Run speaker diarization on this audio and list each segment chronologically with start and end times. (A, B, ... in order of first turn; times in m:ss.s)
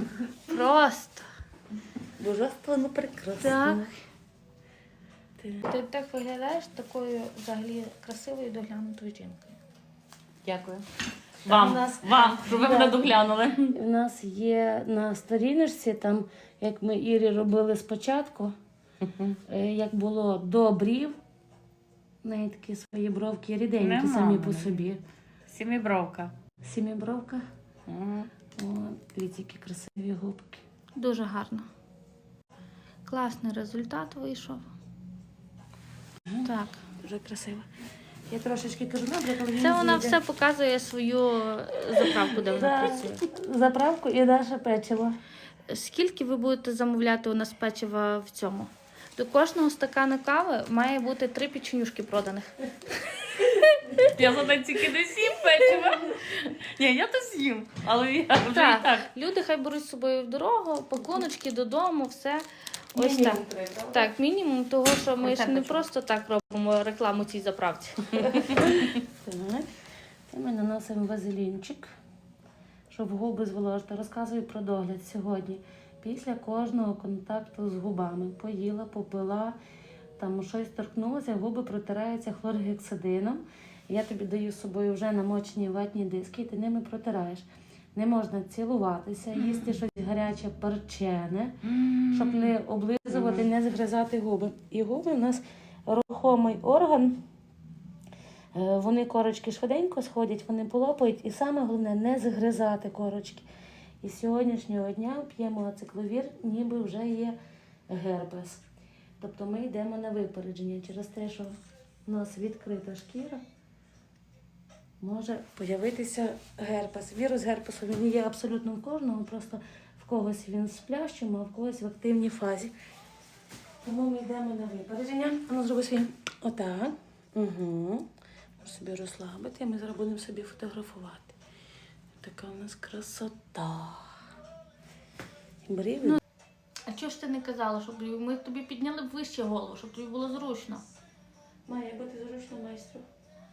0:00.4-0:01.2 A
0:02.2-0:03.9 B
0:03.4-0:03.9 A
0:05.4-0:05.7 B
0:05.6-0:09.6 A
0:10.4-0:10.8 C
0:11.4-0:13.8 C
0:11.5-0:13.1 B
0:13.7-0:18.6 B
0:19.0-0:19.4 C
0:19.4-0:21.2 B
0:22.2-0:25.0 B
0:23.8-0:24.8 C
0:25.5-0:26.3 C
0:26.6-0:27.4 B
0:27.9-0:28.3 C
0:28.6-0:30.6 B
0:31.0-0:31.7 A
0:33.1-0:34.7 A
0:36.3-0:37.7 B
0:36.4-0:36.8 A
0:38.3-0:40.2 B
0:39.6-0:43.2 A
0:42.0-0:45.2 B
0:45.7-0:52.5 A
0:54.0-0:59.1 C
0:58.5-1:08.6 A
1:03.0-1:04.1 B
1:05.2-1:05.8 C
1:08.5-1:09.7 B
1:10.3-1:11.9 B
1:12.9-1:19.6 B
1:20.2-1:31.6 B
1:29.3-1:29.8 C
1:31.6-1:32.5 C
1:32.1-1:37.2 B
1:33.1-1:33.5 C
1:38.5-1:43.5 B
1:44.0-1:47.4 B
1:47.9-1:48.6 B
1:49.2-1:51.6 B
1:52.1-1:53.4 B
1:55.0-2:02.7 B
2:03.8-2:08.0 B
2:08.6-2:11.4 B
2:12.2-2:14.2 B
2:15.6-2:16.2 B
2:16.9-2:20.8 A
2:21.7-2:23.0 B